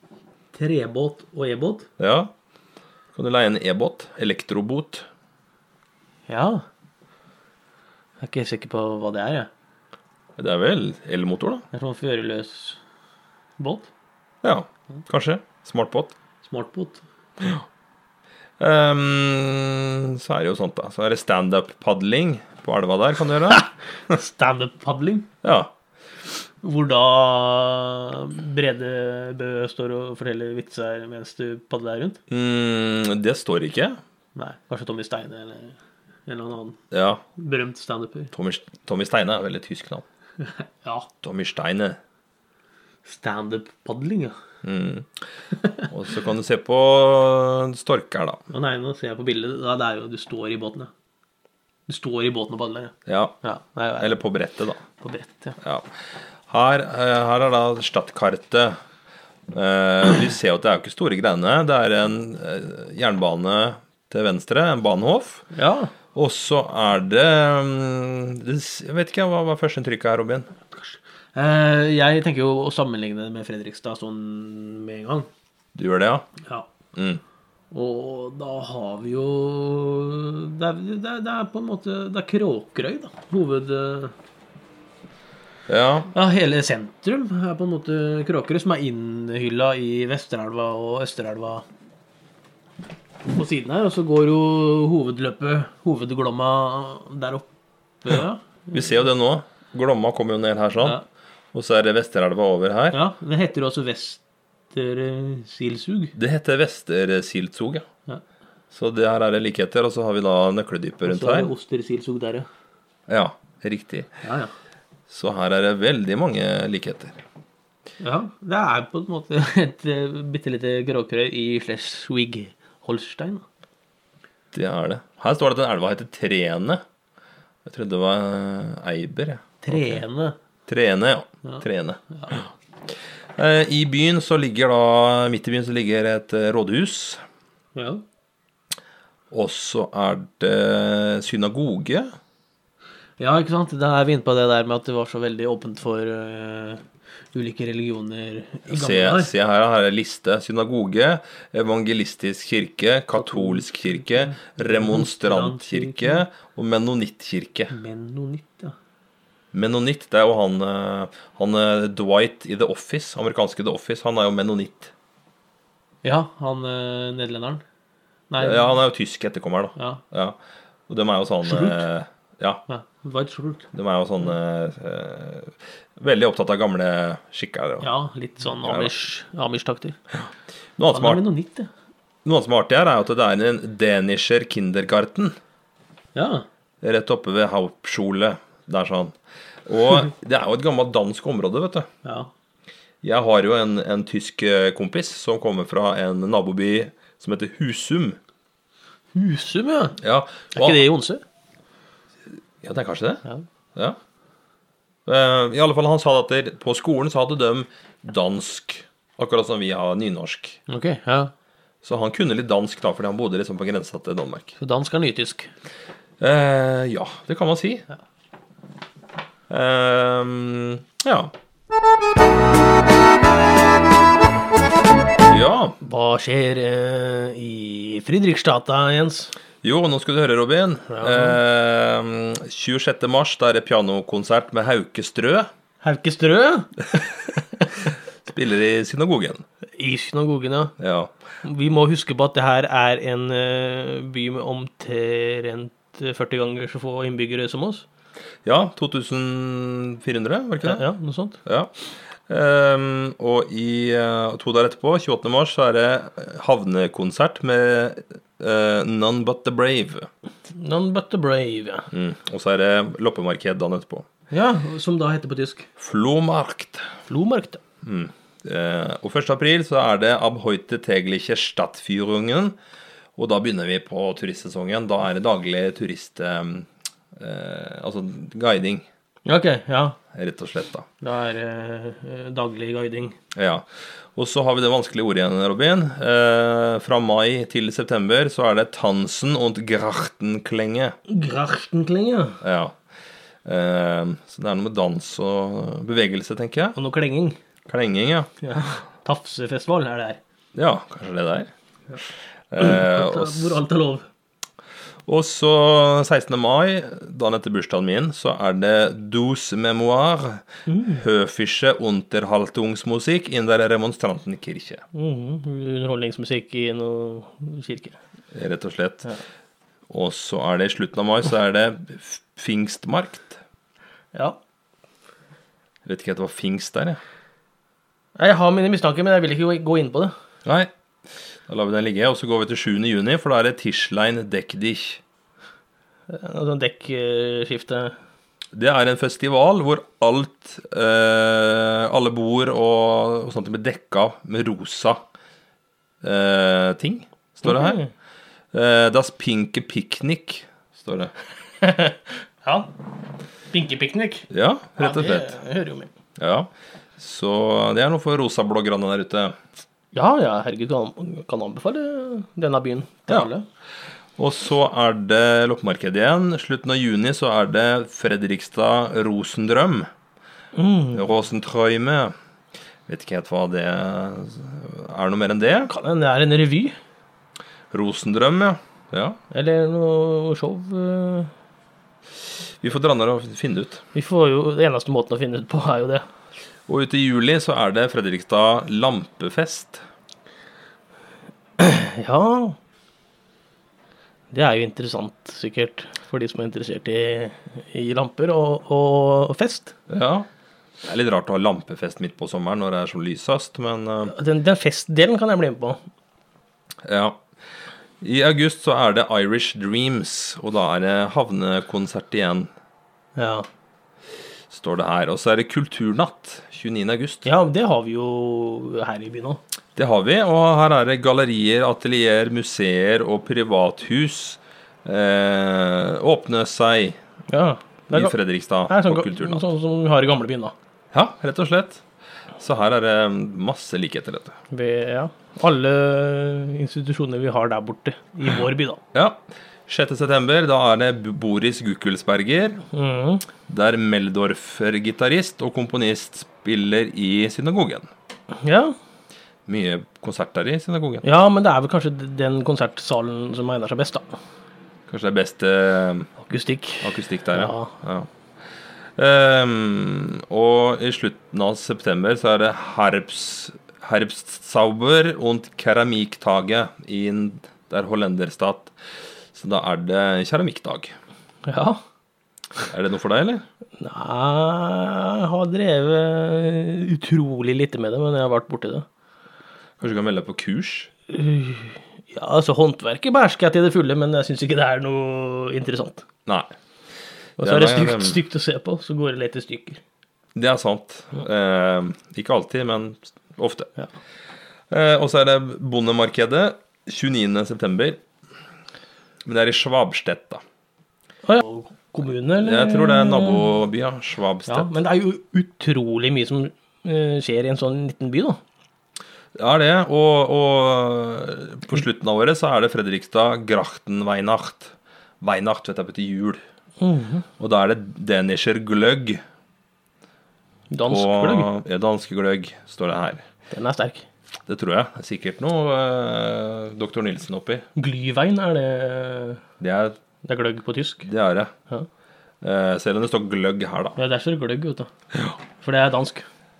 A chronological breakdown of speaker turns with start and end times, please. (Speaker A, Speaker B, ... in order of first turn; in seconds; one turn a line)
Speaker A: 0.5-1.9
Speaker B: 2.0-2.3
Speaker B: 3.1-5.0
Speaker A: 6.3-6.6
Speaker A: 8.2-9.5
Speaker B: 10.4-11.6
Speaker A: 11.7-12.8
Speaker A: 13.6-13.9
Speaker B: 14.4-16.1
Speaker A: 16.4-17.0
Speaker B: 18.6-23.6
Speaker A: 23.5-25.3
Speaker B: 25.4-25.7
Speaker A: 26.6-32.2
Speaker B: 32.3-34.0
Speaker A: 34.4-36.8
Speaker B: 36.9-37.2
Speaker A: 37.3-38.3
Speaker B: 38.3-40.0
Speaker A: 40.4-41.1
Speaker B: 41.2-42.0
Speaker A: 43.0-44.4
Speaker B: 44.6-45.2
Speaker B: 45.9-48.4
Speaker A: 48.5-50.9
Speaker A: 51.9-54.2
Speaker B: 53.0-53.4
Speaker B: 54.0-54.8
Speaker A: 55.0-55.6
Speaker B: 55.6-55.9
Speaker B: 56.5-58.8
Speaker B: 59.5-65.5
Speaker A: 65.5-65.9
Speaker B: 66.1-70.5
Speaker A: 70.7-75.3
Speaker B: 75.7-76.3
Speaker A: 76.4-76.7
Speaker B: 76.9-77.2
Speaker A: 77.7-84.1
Speaker B: 85.7-86.1
Speaker A: 86.1-91.6
Speaker A: 93.3-97.5
Speaker A: 98.0-98.7
Speaker B: 98.7-101.0
Speaker B: 101.5-103.0
Speaker A: 102.9-106.1
Speaker B: 106.2-107.8
Speaker B: 108.7-111.5
Speaker A: 111.0-112.5
Speaker B: 113.1-114.1
Speaker A: 114.2-114.5
Speaker B: 115.1-117.2
Speaker A: 118.0-123.4
Speaker B: 124.5-126.8
Speaker B: 127.6-130.0
Speaker A: 129.6-130.3
Speaker B: 130.7-132.4
Speaker A: 131.4-132.3
Speaker B: 133.3-137.2
Speaker A: 137.7-138.0
Speaker B: 139.3-142.1
Speaker A: 143.2-149.3
Speaker B: 148.7-157.7
Speaker A: 153.2-156.2
Speaker A: 157.7-158.7
Speaker B: 159.5-164.9
Speaker A: 166.0-167.6
Speaker A: 168.3-168.7
Speaker B: 168.4-172.6
Speaker A: 169.8-170.0
Speaker A: 171.4-171.8
Speaker A: 172.7-173.7
Speaker B: 173.7-177.9
Speaker A: 177.8-180.0
Speaker B: 178.6-178.9
Speaker B: 180.8-181.2
Speaker A: 180.9-181.7
Speaker B: 182.2-185.3
Speaker A: 186.1-186.4
Speaker B: 186.8-189.1
Speaker B: 189.7-191.9
Speaker A: 192.0-192.3
Speaker B: 193.0-198.2
Speaker A: 199.1-200.0
Speaker B: 200.0-200.8
Speaker A: 200.5-201.2
Speaker B: 202.6-203.2
Speaker B: 205.1-210.6
Speaker A: 210.7-211.3
Speaker B: 211.8-214.5
Speaker A: 214.6-215.5
Speaker B: 216.2-217.8
Speaker B: 219.5-221.3
Speaker B: 225.3-225.8
Speaker A: 225.8-229.3
Speaker B: 229.6-235.5
Speaker A: 230.9-231.4
Speaker A: 235.8-237.6
Speaker B: 238.3-239.4
Speaker A: 239.8-240.8
Speaker B: 240.8-241.1
Speaker A: 241.4-247.8
Speaker B: 248.4-250.8
Speaker A: 250.6-251.4
Speaker B: 251.4-251.7
Speaker B: 252.3-260.1
Speaker A: 260.5-261.9
Speaker B: 261.9-264.1
Speaker A: 264.3-265.7
Speaker B: 265.8-266.9
Speaker A: 267.1-267.6
Speaker B: 267.8-272.6
Speaker B: 273.1-278.9
Speaker A: 279.2-280.0
Speaker B: 280.1-280.9
Speaker A: 281.0-283.2
Speaker B: 283.3-290.9
Speaker A: 291.1-292.4
Speaker B: 292.4-292.8
Speaker B: 293.4-296.8
Speaker A: 296.7-297.4
Speaker B: 297.7-298.3
Speaker A: 298.4-300.2
Speaker B: 300.5-301.5
Speaker B: 302.5-303.6
Speaker A: 302.6-304.1
Speaker B: 305.1-314.8
Speaker A: 310.7-311.0
Speaker A: 314.9-318.0
Speaker B: 318.3-319.1
Speaker B: 319.9-323.4
Speaker B: 325.8-327.0
Speaker A: 328.2-330.1
Speaker B: 330.4-330.7
Speaker B: 331.5-335.0
Speaker A: 336.1-337.9
Speaker B: 338.5-345.1
Speaker B: 346.0-347.8
Speaker A: 347.4-347.9
Speaker B: 348.5-351.1
Speaker A: 351.6-352.7
Speaker A: 353.5-355.9
Speaker B: 354.3-355.3
Speaker B: 356.2-359.4
Speaker A: 359.9-363.4
Speaker B: 364.2-369.9
Speaker A: 370.5-371.1
Speaker B: 370.9-372.1
Speaker B: 372.9-375.7
Speaker A: 375.6-376.8
Speaker B: 377.7-379.2
Speaker A: 379.3-381.3
Speaker B: 382.6-383.8
Speaker A: 383.9-386.0
Speaker B: 386.7-389.8
Speaker A: 391.6-392.6
Speaker A: 394.3-399.7
Speaker B: 399.9-400.3
Speaker B: 400.8-404.1
Speaker A: 404.1-405.8
Speaker B: 406.8-407.2
Speaker B: 408.0-412.5
Speaker A: 413.1-413.4
Speaker B: 414.5-417.3
Speaker A: 417.2-419.4
Speaker B: 419.8-427.0
Speaker A: 427.3-428.1
Speaker B: 427.9-429.4
Speaker A: 428.7-430.5
Speaker B: 430.9-431.8
Speaker B: 432.4-434.4
Speaker A: 434.5-438.8
Speaker B: 438.9-442.6
Speaker A: 442.7-443.3
Speaker B: 443.5-447.9
Speaker A: 448.3-448.8
Speaker B: 449.4-451.0
Speaker A: 451.0-454.1
Speaker B: 454.9-456.1
Speaker A: 456.2-457.7
Speaker B: 456.8-458.1
Speaker B: 458.9-468.7
Speaker B: 469.3-470.9
Speaker A: 471.4-471.8
Speaker B: 472.7-473.4
Speaker A: 473.8-478.9
Speaker B: 479.8-480.9
Speaker A: 481.1-486.0
Speaker B: 486.2-486.5
Speaker A: 487.4-489.8
Speaker B: 487.4-488.2
Speaker B: 490.3-493.7
Speaker B: 494.7-498.0
Speaker B: 499.2-500.4
Speaker A: 501.2-503.5
Speaker B: 502.4-504.7
Speaker A: 504.5-508.4
Speaker B: 509.4-516.4
Speaker A: 516.8-517.2
Speaker B: 517.4-519.2
Speaker A: 520.7-521.5
Speaker B: 520.9-523.2
Speaker A: 523.5-524.1
Speaker B: 524.5-527.6
Speaker A: 527.8-529.4
Speaker B: 529.6-530.0
Speaker A: 530.2-531.1
Speaker B: 531.0-531.5
Speaker B: 532.4-534.0
Speaker A: 534.0-534.9
Speaker A: 535.6-536.2